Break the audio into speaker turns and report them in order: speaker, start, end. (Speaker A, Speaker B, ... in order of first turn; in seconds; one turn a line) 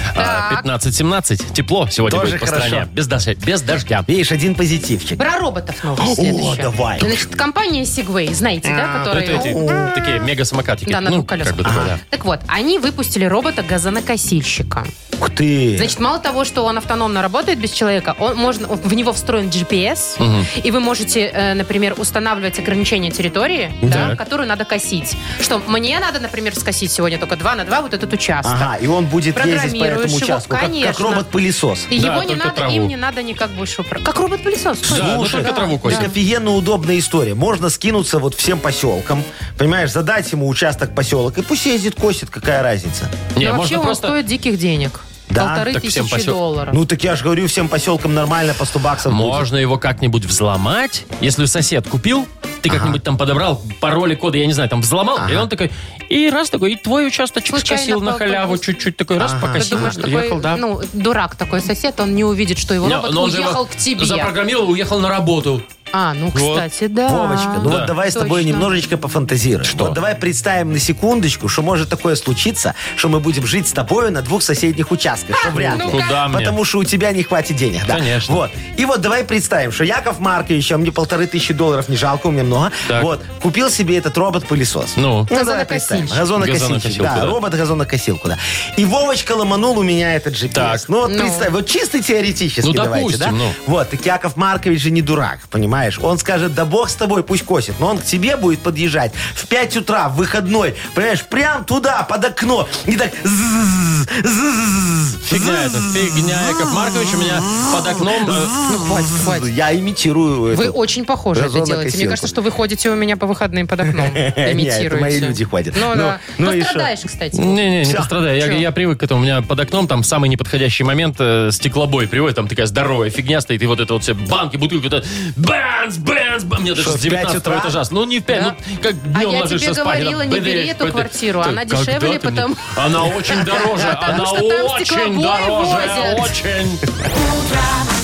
Speaker A: 0.1-4.0
Speaker B: 0.1-0.7
Speaker C: 2.1-2.9
Speaker C: 4.1-5.2
Speaker B: 5.2-9.6
Speaker C: 6.0-7.1
Speaker C: 8.9-9.9
Speaker A: 9.1-12.0
Speaker B: 10.9-14.9
Speaker C: 11.6-11.9
Speaker C: 15.2-15.9
Speaker B: 15.8-28.7
Speaker A: 20.2-20.5
Speaker C: 23.8-24.1
Speaker A: 23.9-24.2
Speaker C: 28.4-31.9
Speaker B: 29.3-31.3
Speaker B: 31.9-36.1
Speaker A: 31.9-32.9
Speaker A: 34.8-36.1
Speaker C: 34.9-43.1
Speaker A: 43.3-44.1
Speaker B: 43.4-46.8
Speaker C: 45.3-45.7
Speaker A: 45.6-46.4
Speaker C: 46.7-49.4
Speaker A: 49.1-60.6
Speaker C: 52.7-53.0
Speaker C: 55.2-55.5
Speaker B: 57.5-58.6
Speaker C: 59.2-60.0
Speaker B: 59.6-64.3
Speaker A: 62.8-65.7
Speaker B: 65.9-68.7
Speaker A: 66.3-66.7
Speaker C: 67.0-110.8
Speaker A: 67.6-67.9
Speaker A: 69.7-70.0
Speaker B: 75.3-76.2
Speaker A: 75.5-76.5
Speaker A: 77.9-78.4
Speaker A: 85.0-85.3
Speaker B: 85.3-86.3
Speaker A: 86.3-87.4
Speaker A: 90.5-90.8
Speaker B: 91.0-91.5
Speaker A: 92.6-93.5
Speaker A: 105.2-108.6
Speaker B: 108.6-109.5
Speaker B: 110.5-117.6
Speaker C: 111.3-112.3
Speaker C: 113.8-116.9
Speaker A: 117.3-136.8
Speaker C: 117.8-118.1
Speaker C: 126.7-127.8
Speaker B: 129.1-132.8
Speaker B: 133.3-136.3